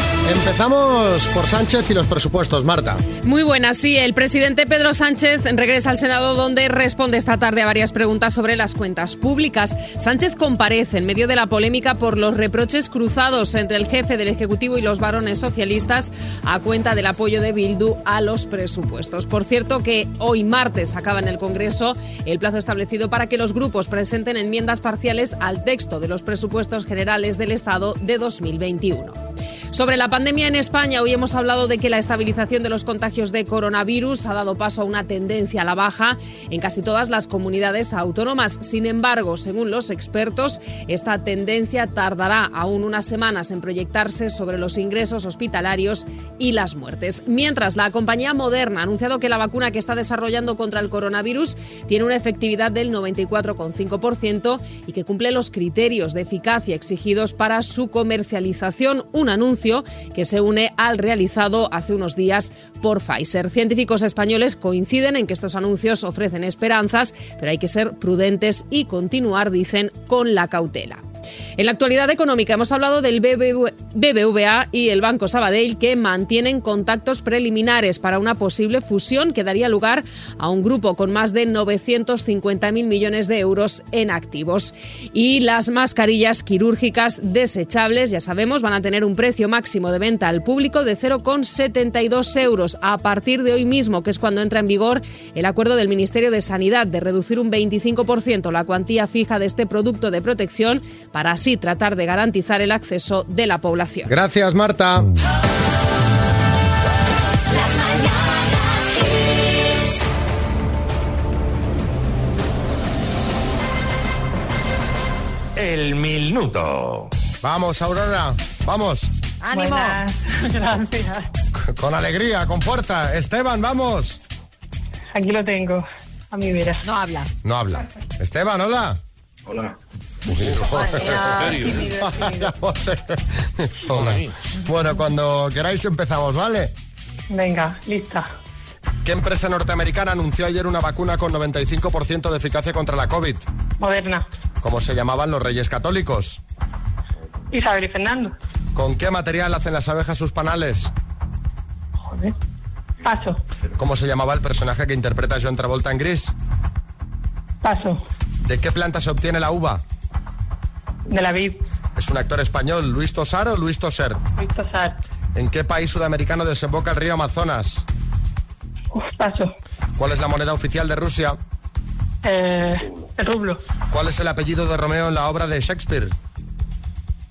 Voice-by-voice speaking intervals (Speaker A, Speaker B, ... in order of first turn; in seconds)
Speaker A: 0.2-3.0, 104.1-105.1, 117.4-119.1, 121.5-124.2, 127.4-129.0, 130.3-136.7, 139.0-143.5, 144.6-146.4, 148.7-150.9, 153.8-156.3, 158.4-159.8, 161.9-164.2, 165.3-167.8, 170.0-171.4, 173.9-176.2
Speaker B: 3.2-29.2, 29.7-71.0, 71.6-104.1
Speaker C: 115.6-117.0, 130.3-131.9, 133.9-134.3
Speaker D: 119.4-120.0, 126.8-127.3, 130.7-131.7
Speaker E: 119.5-121.3, 125.1-126.8, 131.5-132.5, 137.3-138.3, 143.8-144.2, 147.5-148.3, 152.1-152.3, 153.0-153.4, 157.6-158.0, 161.1-161.6, 164.4-165.0, 168.9-169.5, 172.2-173.6